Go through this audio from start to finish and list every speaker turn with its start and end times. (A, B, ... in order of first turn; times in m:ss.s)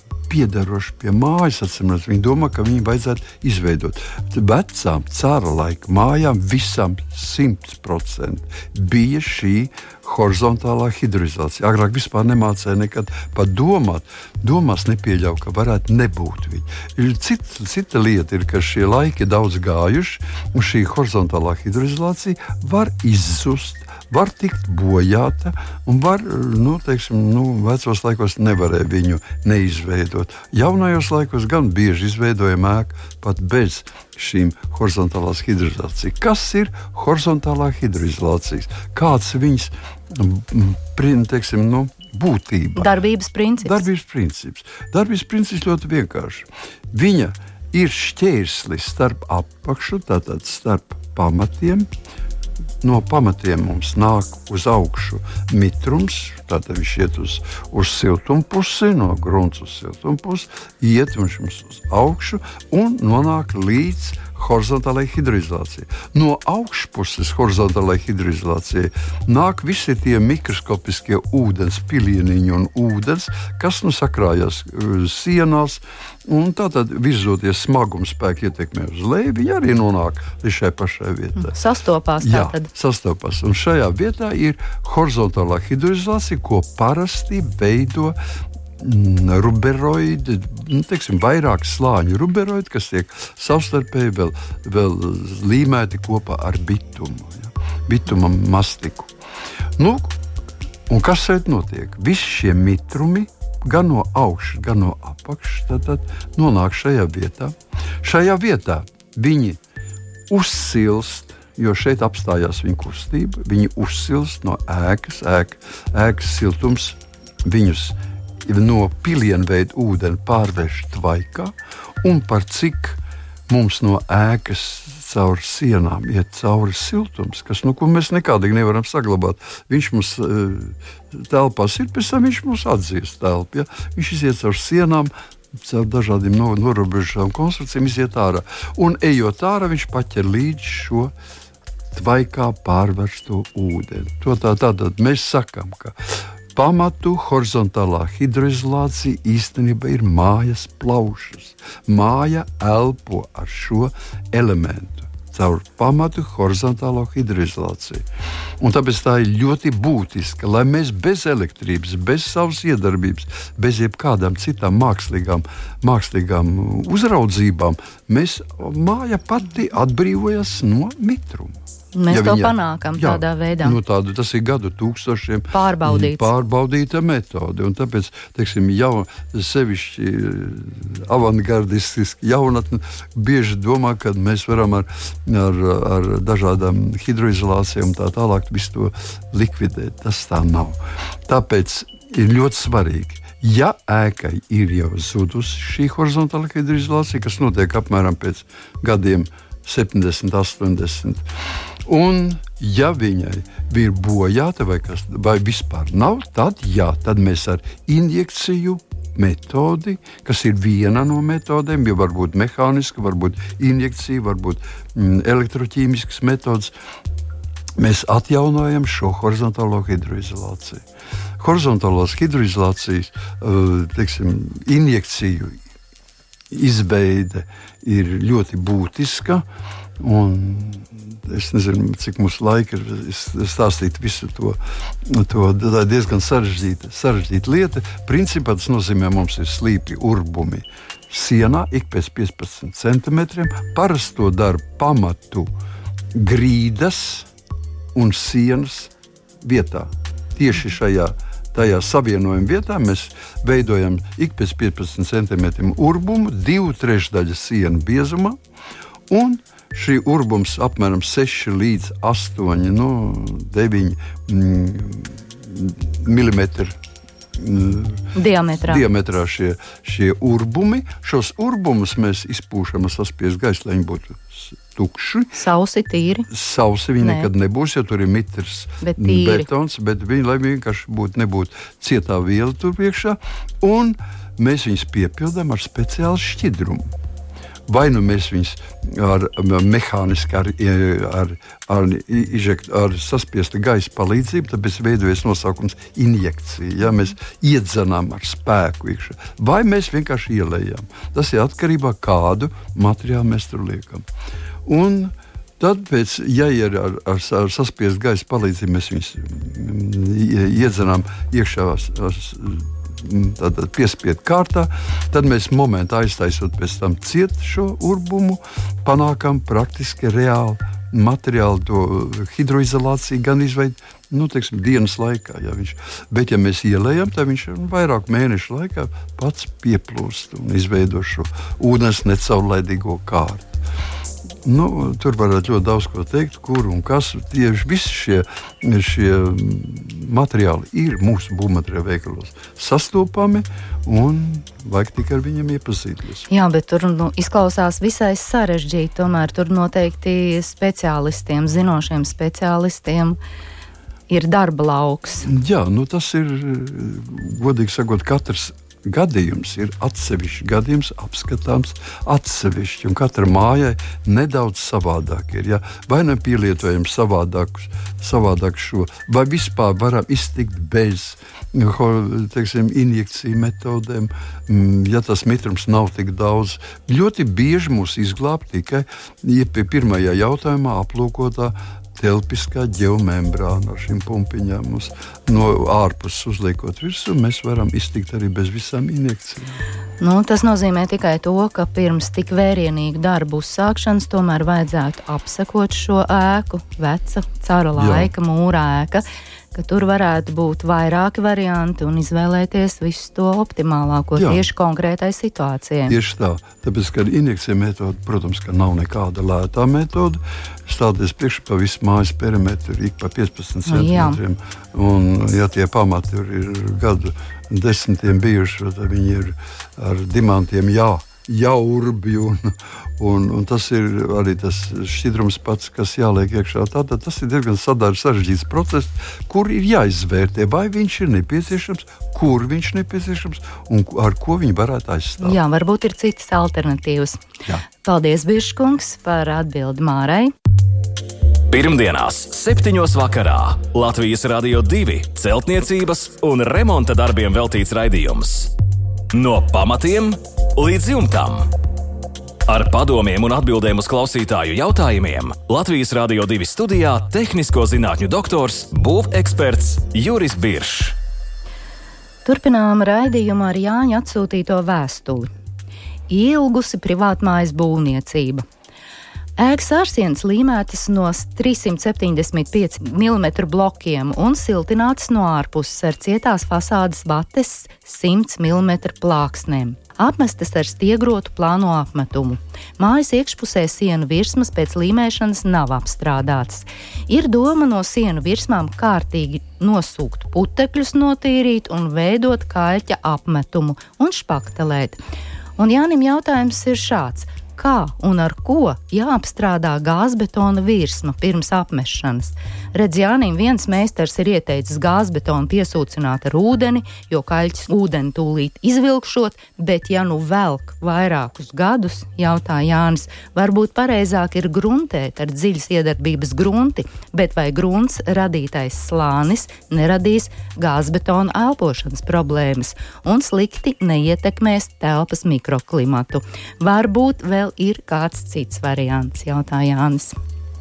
0:00.3-0:42.9 A
0:42.8-0:43.8 B
0:43.6-0:51.9 A
0:52.8-1:21.5 A
1:21.4-1:22.7 B
1:22.2-1:28.2 A
1:28.8-1:39.1 A
1:39.8-1:40.2 A
1:40.9-1:49.6 A
1:50.3-2:21.1 A
2:21.9-2:26.0 A
2:26.5-2:38.0 A
2:38.6-2:51.6 A
2:51.9-2:53.8 B
2:52.1-3:21.2 A
2:55.5-2:56.3 B
3:21.8-3:36.7 A
3:37.8-3:40.8 A
3:41.4-3:45.6 A
3:46.5-3:49.4 A
3:50.0-4:05.5 A
4:06.1-4:07.3 A
4:07.9-4:08.9 A
4:09.4-4:18.4 A
4:19.1-4:26.8 A
4:27.4-4:35.3 A
4:28.1-4:28.8 B
4:35.3-4:36.3 B
4:36.3-4:46.9 A
4:37.0-4:37.3 B
4:38.8-4:39.4 B
4:47.7-5:04.0 A
5:04.6-5:33.6 A
5:34.4-5:46.3 A
5:46.3-5:53.2 B
5:54.1-5:55.3 B
5:55.2-6:29.6 A
6:30.0-6:45.9 B
6:37.8-6:38.1 A
6:44.2-6:44.5 A
6:45.9-7:15.4 A
6:53.6-6:54.2 B
7:15.2-7:17.2 B
7:17.8-7:20.3 B
7:21.5-7:28.5 C
7:29.1-7:31.5 C
7:32.5-7:41.0 C
7:42.2-7:45.3 B
7:46.1-7:48.4 B
7:49.4-8:15.0 B
8:15.6-8:50.1 B